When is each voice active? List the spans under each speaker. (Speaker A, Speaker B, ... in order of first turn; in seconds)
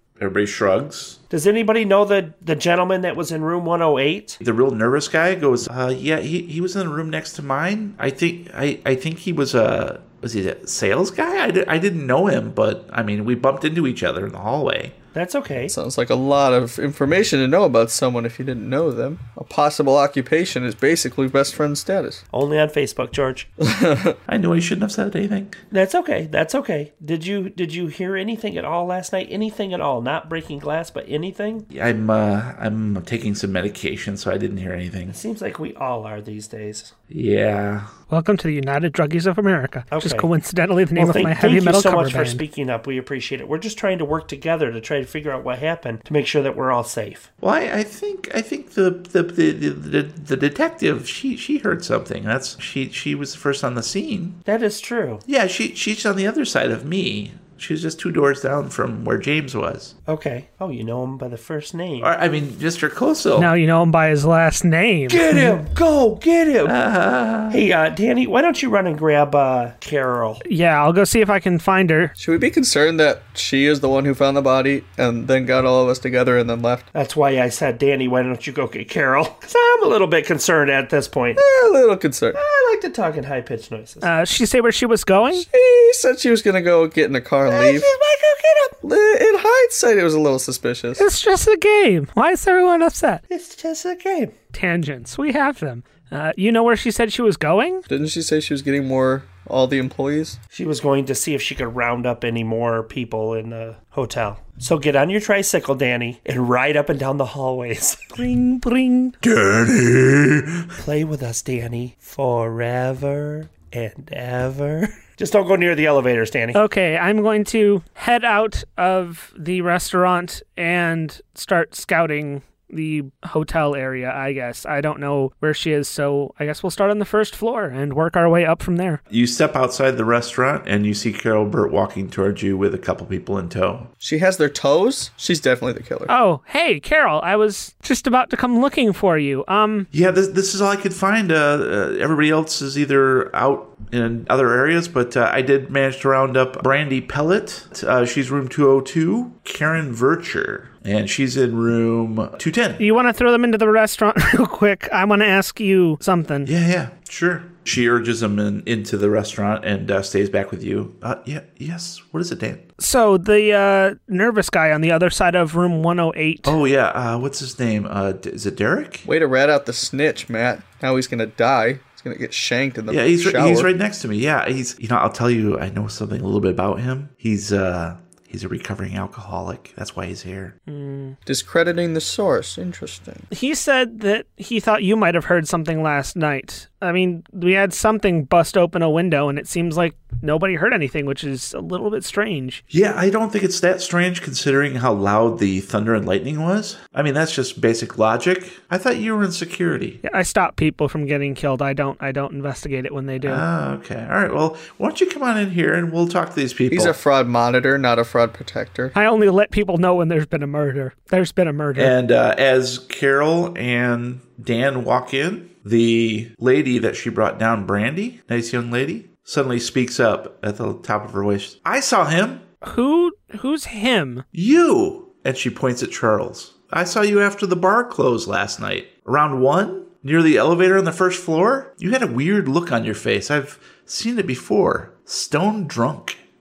Speaker A: 0.2-1.2, 4.4-15.0, 24.3-25.6, 31.7-35.2, 37.1-37.9, 47.4-54.4, 55.3-59.9, 62.0-63.5, 66.7-67.6, 109.2-110.7, 129.1-133.9, 139.9-152.8, 156.4-162.6, 166.4-169.1, 172.9-180.6, 192.7-200.0, 203.2-206.9, 211.8-222.4, 224.3-236.2
Speaker B: 1.3-4.4, 15.1-15.7, 22.3-23.5, 25.7-31.7, 35.1-36.9, 39.9-40.3, 41.0-47.3, 54.5-55.2, 60.1-62.1, 65.1-66.8, 67.5-70.4, 76.9-81.4, 82.3-84.1, 87.5-88.8, 93.3-94.3, 100.5-108.2, 110.8-116.6
Speaker C: 15.7-22.2, 23.6-24.2, 72.2-76.9, 81.4-82.4, 85.3-87.9, 88.8-91.0, 97.9-100.4, 134.0-136.1, 169.1-173.7, 181.3-183.3, 206.7-208.9
Speaker D: 38.1-42.4, 63.4-65.6, 70.5-72.1, 84.0-85.5, 91.0-93.2, 94.5-97.9, 108.2-109.2, 116.5-129.0, 136.1-139.9, 152.8-156.5, 162.8-166.6, 180.7-181.2, 183.3-192.6, 200.0-203.4, 208.9-211.9, 222.6-224.2